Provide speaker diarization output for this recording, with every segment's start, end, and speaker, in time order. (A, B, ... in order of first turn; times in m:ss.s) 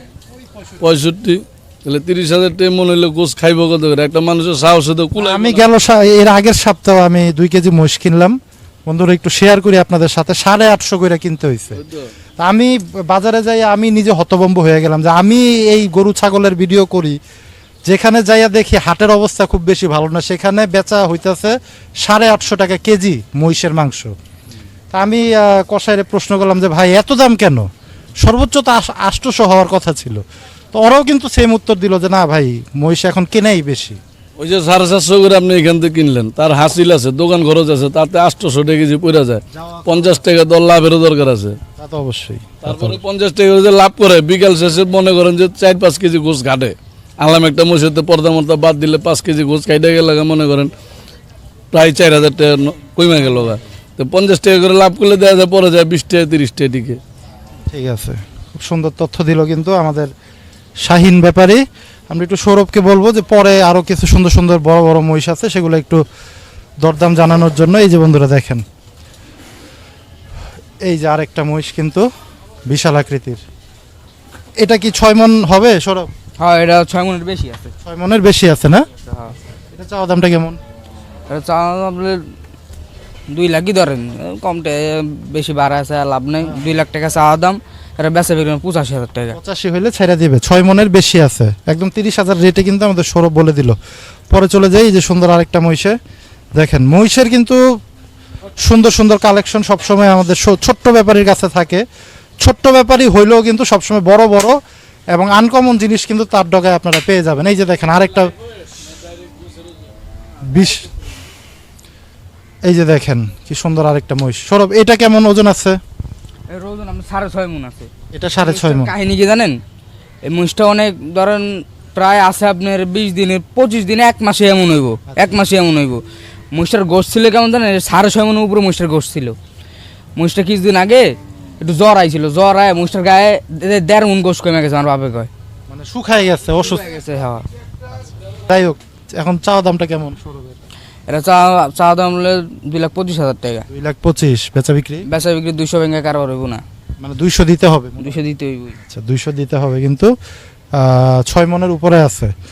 0:00.4-0:00.8 A
0:00.8-0:05.7 B
0:05.2-0:11.8 A
0:11.8-0:12.1 B
0:12.4-0:17.2 A
0:17.8-0:24.1 A
0:24.9-0:27.7 A
0:28.2-0:30.2 A
0:30.7-0:34.0 A
0:34.4-0:41.6 B
0:39.5-0:40.2 A
0:41.8-0:43.0 A
0:42.6-0:50.7 B
0:51.7-0:57.0 B
0:57.7-1:00.1 A
1:00.8-1:06.0 A
1:06.8-1:08.6 A
1:10.8-1:12.1 A
1:12.7-1:13.4 A
1:14.6-1:16.1 A
1:16.4-1:17.7 C
1:17.8-1:18.9 A
1:19.1-1:19.3 C
1:19.7-1:20.6 A
1:21.3-1:22.2 C
1:23.3-1:29.4 C
1:29.3-1:33.8 A
1:34.3-1:36.0 A
1:36.6-1:37.6 A
1:38.6-1:41.8 A
1:42.4-1:44.6 A
1:45.1-1:48.3 A
1:50.4-1:50.9 A
1:52.6-1:55.8 A
1:56.5-1:59.6 C
1:58.1-1:58.9 A
2:00.2-2:09.4 C
2:05.1-2:05.4 A
2:10.2-2:11.0 C
2:11.6-2:15.3 C
2:15.7-2:17.0 A
2:16.7-2:17.4 C
2:18.0-2:20.6 A
2:21.1-2:23.6 C
2:23.7-2:25.0 A
2:25.0-2:26.6 C
2:27.0-2:28.2 A
2:28.0-2:28.8 C
2:28.8-2:30.1 A
2:30.7-2:32.3 A